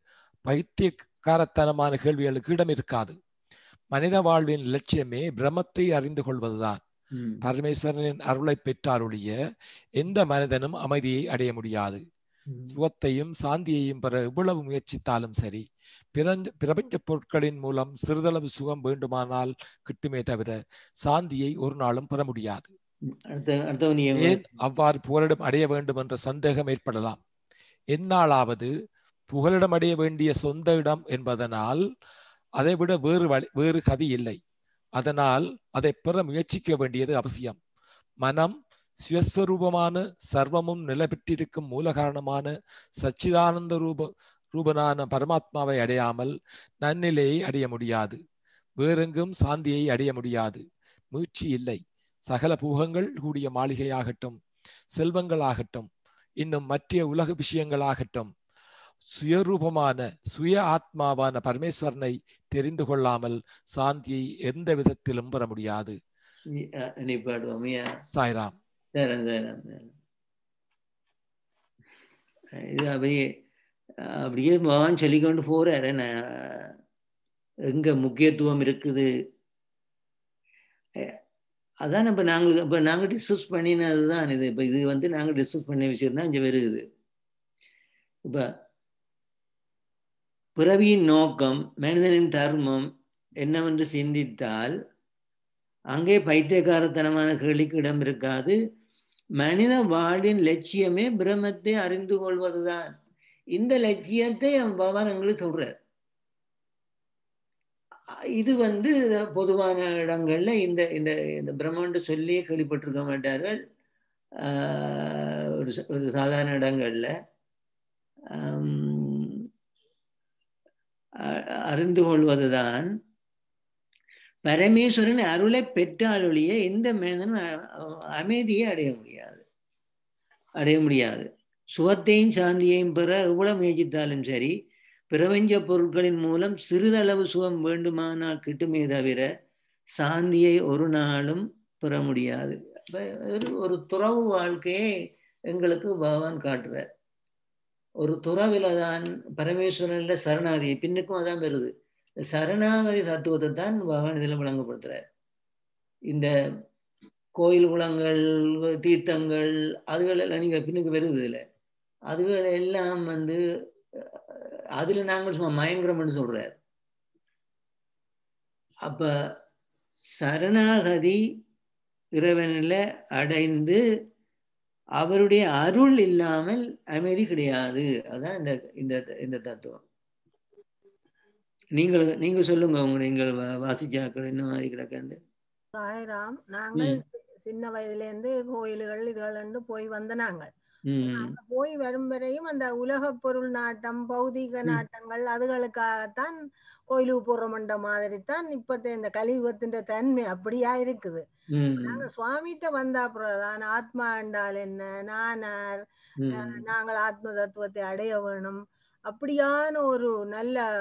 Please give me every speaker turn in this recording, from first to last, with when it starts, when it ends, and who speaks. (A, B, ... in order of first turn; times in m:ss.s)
0:00.4-0:03.2 A
0:03.9-0:06.8 A
0:07.2-0:07.4 B
0:07.4-0:09.3 A
0:10.0-0:12.0 A
0:12.5-0:12.8 B
0:12.7-0:22.7 A
0:23.1-0:24.4 B
0:24.2-0:27.2 A
0:27.9-0:28.7 A
0:29.3-0:31.8 A
0:32.6-0:34.4 A
0:35.0-0:37.6 A
0:38.2-0:48.2 A
0:48.8-0:54.4 A
0:54.9-0:55.9 A
0:56.4-0:58.3 A
0:59.1-1:06.0 A
1:06.6-1:07.8 B
1:08.1-1:08.5 A
1:09.0-1:09.9 B
1:12.5-1:13.2 B
1:14.2-1:16.7 B
1:17.7-1:19.1 B
1:21.8-1:26.8 B
1:30.6-1:32.9 B
1:33.4-1:34.7 B
1:35.9-1:38.6 B
1:39.4-1:42.9 B
1:43.6-1:45.7 B
1:48.4-1:53.6 B
1:54.4-1:57.1 B
1:58.4-1:59.3 B
2:01.7-2:02.9 B
2:04.5-2:09.4 B
2:10.6-2:14.5 B
2:15.1-2:19.3 B
2:20.0-2:24.8 B
2:25.5-2:26.8 B
2:28.0-2:31.7 B
2:32.3-2:35.0 B
2:37.4-2:38.2 B
2:38.8-2:41.4 B
2:42.1-2:43.4 B
2:44.8-2:46.6 B
2:50.2-2:51.2 B
2:52.2-2:53.8 B
2:55.0-2:59.8 B
3:01.8-3:05.2 B
3:05.7-3:10.5 C
3:06.7-3:07.0 B
3:10.9-3:11.4 B
3:11.0-3:16.3 C
3:16.9-3:21.2 C
3:21.5-3:22.1 B
3:21.8-3:25.8 C
3:26.2-3:26.6 B
3:26.3-3:30.6 C